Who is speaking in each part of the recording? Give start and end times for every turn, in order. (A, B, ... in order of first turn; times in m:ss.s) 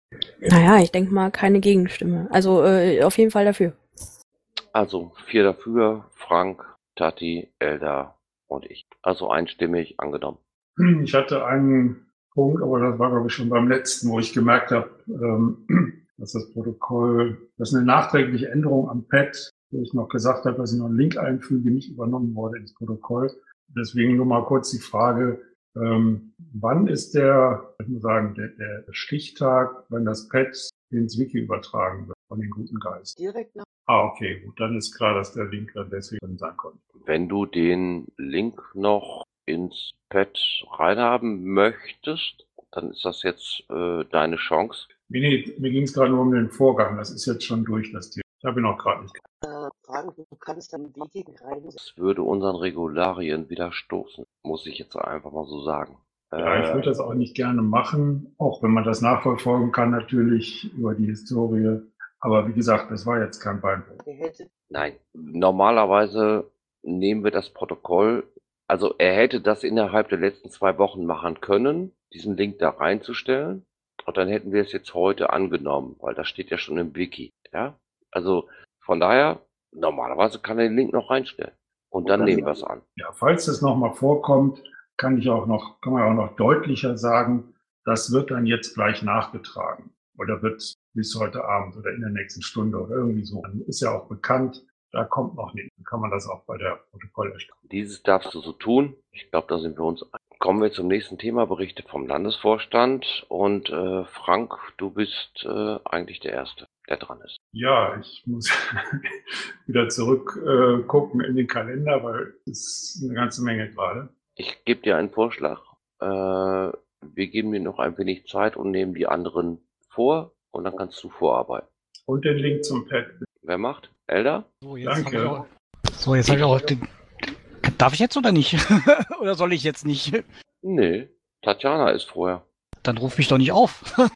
0:00.4-0:03.8 A
0:04.7-0:10.4 B
0:10.8-0:33.1 C
0:33.1-0:33.6 D
0:33.9-0:36.8 C
0:37.0-0:44.9 B
0:45.1-0:49.2 C
0:49.4-0:51.8 D
0:51.8-0:56.9 B
0:56.4-1:04.0 C
1:04.0-1:04.5 D
1:04.7-1:22.8 B
1:22.0-1:22.4 D
1:23.0-1:37.5 C
1:37.7-1:47.3 B
1:47.5-1:54.1 C
1:54.4-2:01.7 B
2:02.1-2:03.2 C
2:03.4-2:04.5 B
2:04.6-2:05.4 E
2:04.8-2:05.4 C
2:06.0-2:06.8 E
2:07.6-2:10.2 E
2:10.6-2:12.4 B
2:12.8-2:13.9 E